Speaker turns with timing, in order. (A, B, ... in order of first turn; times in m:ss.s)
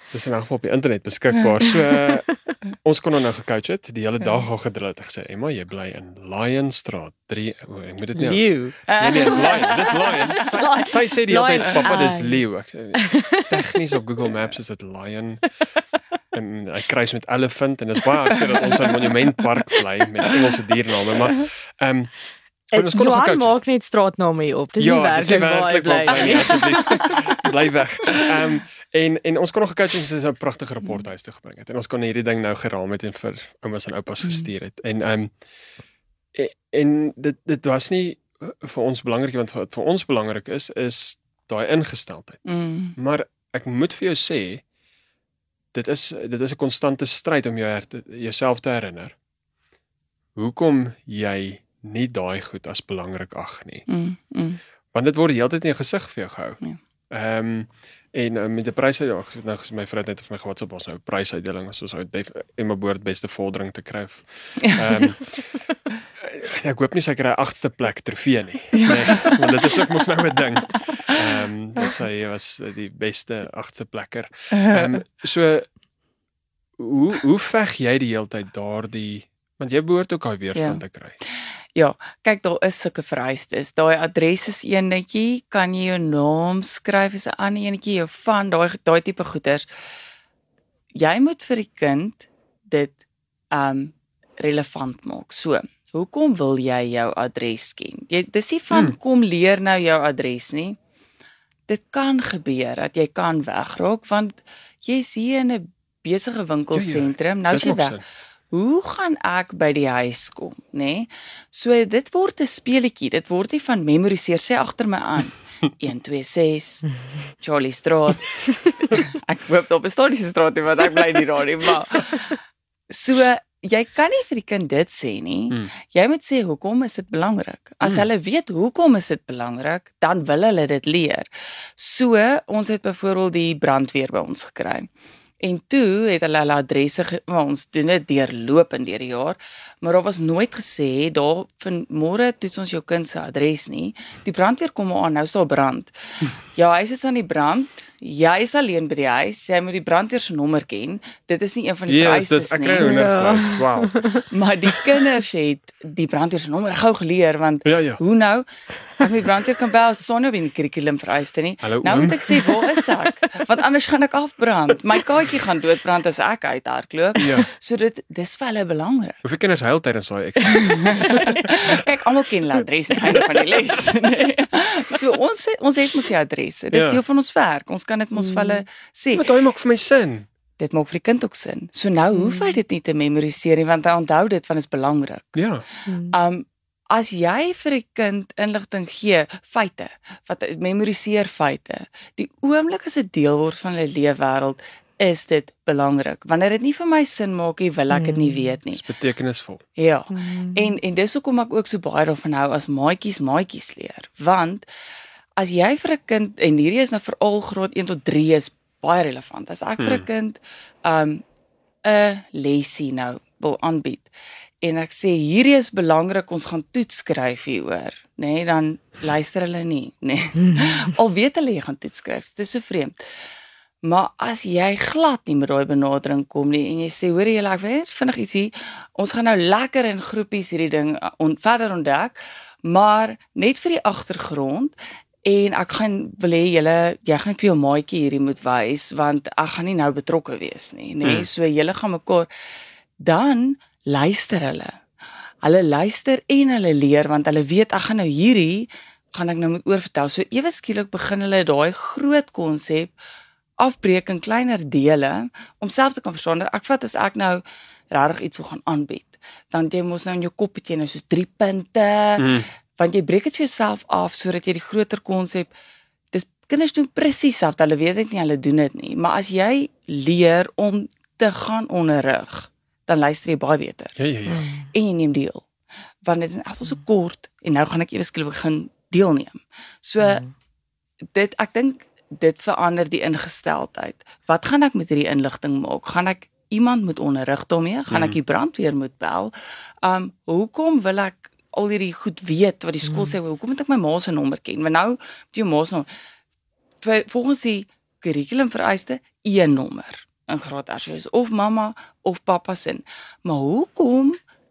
0:00.1-0:15.4 A
0:08.2-0:09.3 B
0:08.9-0:10.4 C
0:10.3-0:12.4 B
0:13.0-0:13.6 B
0:16.3-0:22.1 A
0:22.7-0:27.1 B
0:22.7-0:23.5 A
0:24.8-0:35.3 A
0:36.3-0:42.4 A
0:42.5-0:43.0 C
0:43.0-0:44.6 A
0:45.7-0:49.2 A
0:50.4-0:53.8 A
0:53.9-0:54.6 C
0:54.9-0:56.6 A
0:57.1-1:05.6 A
1:04.6-1:04.9 C
1:06.2-1:15.7 A
1:08.7-1:09.4 C
1:14.5-1:15.0 C
1:16.8-1:21.2 A
1:20.5-1:20.8 C
1:21.8-1:29.7 C
1:30.9-1:33.0 C
1:33.5-1:40.8 C
1:41.7-1:48.0 C
1:46.7-1:48.0 A
1:48.5-2:02.4 C
2:02.9-2:14.9 C
2:15.4-2:32.9 C
2:31.9-2:34.2 A
2:32.8-2:34.2 B
2:34.3-2:38.5 C
2:37.6-2:38.0 A
2:39.0-2:49.2 C
2:41.6-2:42.4 A
2:47.2-2:47.5 A
2:49.2-2:51.9 A
2:50.5-2:59.3 C
2:53.1-2:53.4 A
2:56.7-2:57.0 A
2:58.3-2:58.6 B
2:59.1-3:00.3 A
3:00.6-3:05.4 C
3:02.2-3:02.6 B
3:05.4-3:05.7 A
3:05.9-3:06.2 B
3:06.0-3:18.8 C
3:17.9-3:18.6 B
3:18.7-3:19.6 A
3:19.8-3:24.7 C
3:20.1-3:20.8 B
3:25.4-3:31.2 C
3:29.8-3:30.1 A
3:31.8-3:34.1 C
3:34.6-3:43.0 C
3:40.4-3:40.8 B
3:43.8-4:02.3 C
4:03.0-4:04.8 C
4:05.4-4:12.9 C
4:13.6-4:25.5 C
4:22.2-4:22.5 A
4:26.1-4:34.0 C
4:34.0-4:34.4 A
4:34.3-4:34.7 B
4:34.7-4:35.4 C
4:36.0-4:40.2 C
4:40.0-4:40.3 B
4:41.1-4:55.9 C
4:47.9-4:48.2 A
4:52.9-4:53.2 B
4:56.8-5:04.2 C